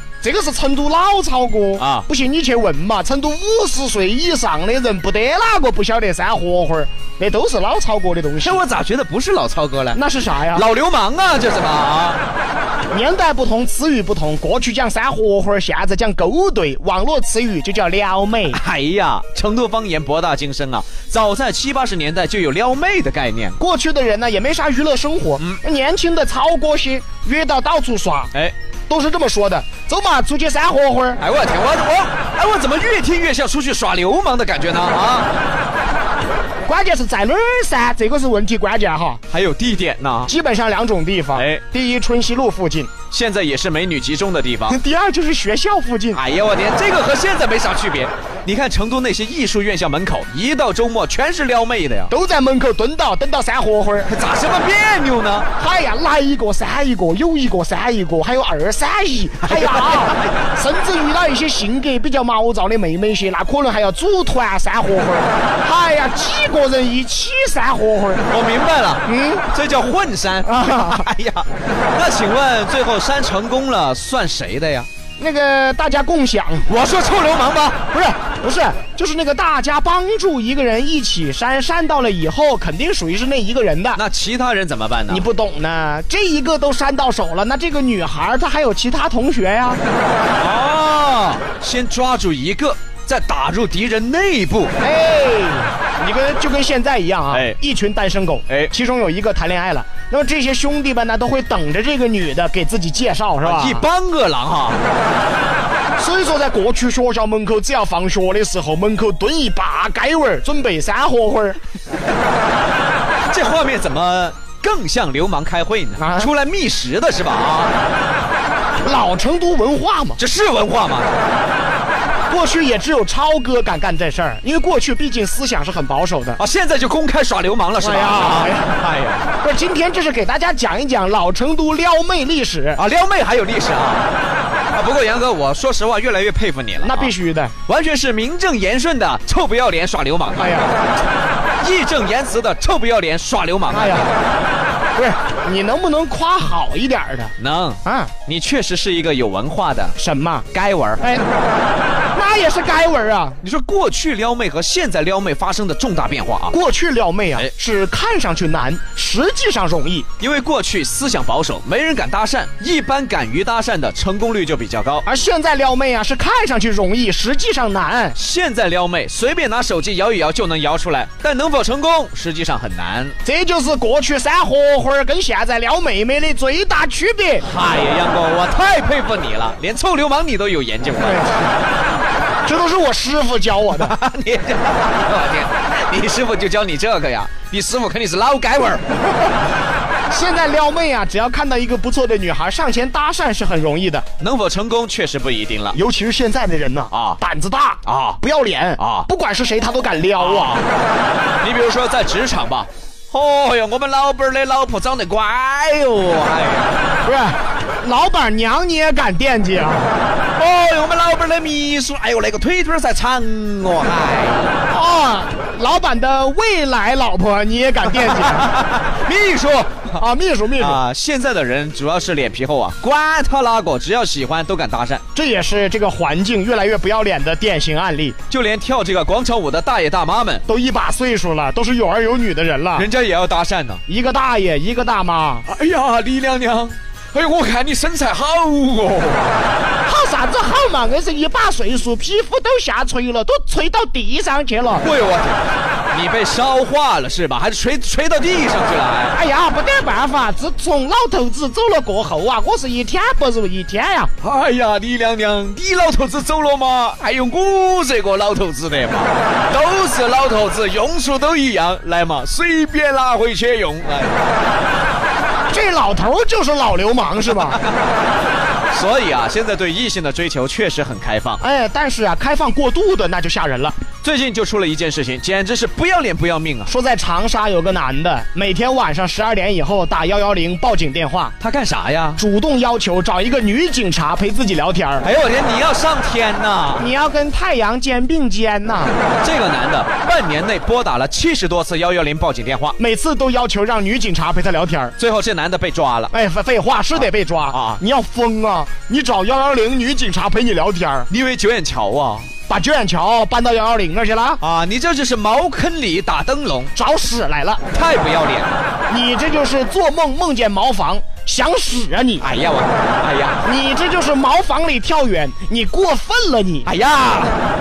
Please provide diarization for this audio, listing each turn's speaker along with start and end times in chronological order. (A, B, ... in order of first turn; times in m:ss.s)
0:00.2-0:08.6 A
0:01.8-0:02.1 B
0:08.4-0:10.0 B
0:09.9-0:10.7 A
0:10.5-0:12.2 B
0:12.9-0:18.6 A
0:18.5-0:23.6 B
0:23.6-0:28.3 A
0:28.9-0:31.2 A
0:31.2-0:35.3 B
0:36.7-0:39.2 A
0:39.3-0:40.3 B
0:40.3-0:42.9 A
0:41.4-0:41.6 B
0:43.1-0:44.8 B
0:44.7-0:46.2 A
0:46.1-0:52.1 B
0:52.1-0:54.1 A
0:54.1-0:55.5 B
0:55.6-1:08.2 A
0:59.5-1:00.4 B
1:08.3-1:14.9 B
1:09.1-1:09.5 A
1:10.4-1:11.1 A
1:15.2-1:16.7 A
1:16.7-1:17.8 B
1:17.9-1:24.0 A
1:23.9-1:25.2 B
1:25.1-1:29.8 A
1:30.4-1:34.8 B
1:34.8-1:43.8 A
1:37.3-1:37.6 B
1:43.4-1:44.8 B
1:46.0-1:51.6 A
1:53.3-1:57.8 B
1:56.0-1:56.3 A
1:58.8-2:00.2 A
2:00.2-2:01.3 B
2:02.3-2:06.4 A
2:06.4-2:09.3 B
2:07.8-2:08.8 A
2:09.4-2:12.8 A
2:12.8-2:14.1 B
2:14.7-2:17.1 B
2:16.8-2:17.5 A
2:17.6-2:20.7 B
2:20.4-2:20.8 A
2:21.6-2:24.2 B
2:23.7-2:24.1 A
2:25.0-2:27.3 A
2:27.4-2:30.0 B
2:27.8-2:28.1 A
2:30.0-2:30.5 A
2:30.5-2:31.0 B
2:31.0-2:31.3 A
2:32.1-2:33.4 A
2:33.4-2:36.6 B
2:36.5-2:40.1 A
2:40.2-2:45.0 B
2:45.0-2:48.2 A
2:48.2-2:53.2 B
2:53.2-2:57.4 A
2:57.4-3:01.3 B
3:00.9-3:01.5 A
3:02.4-3:03.9 A
3:03.7-3:08.9 B
3:10.1-3:14.1 A
3:14.2-3:15.8 B
3:15.7-3:20.6 A
3:16.9-3:17.2 B
3:17.8-3:18.2 B
3:18.8-3:19.1 B
3:20.2-3:20.7 B
3:21.4-3:26.8 B
3:27.0-3:30.0 A
3:30.4-3:34.7 B
3:34.7-3:38.5 A
3:37.9-3:40.0 B
3:40.0-3:40.8 A
3:40.6-3:45.0 B
3:45.2-3:48.2 A
3:48.3-3:50.4 B
3:50.5-3:52.9 A
3:52.8-3:53.8 B
3:53.9-3:55.4 A
3:55.5-3:59.5 B
3:59.8-4:04.8 A
4:04.8-4:09.2 B
4:09.1-4:14.1 A
4:14.2-4:24.2 B
4:25.5-4:27.6 A
4:27.3-4:27.7 B
4:28.7-4:31.4 B
4:31.4-4:33.8 A
4:34.0-4:36.7 B
4:36.7-4:41.4 A
4:41.4-4:42.2 B
4:42.2-4:45.1 A
4:45.0-4:46.9 B
4:46.8-4:49.0 A
4:49.2-4:52.8 B
4:52.8-4:54.9 A
4:55.0-4:56.1 B
4:56.1-5:01.1 A
4:57.0-4:57.8 B
5:01.1-5:02.3 B
5:02.5-5:04.4 A
5:04.4-5:06.7 B
5:06.8-5:07.6 A
5:07.7-5:08.7 B
5:08.9-5:12.3 A
5:12.2-5:13.4 B
5:13.4-5:16.7 A
5:16.6-5:17.4 B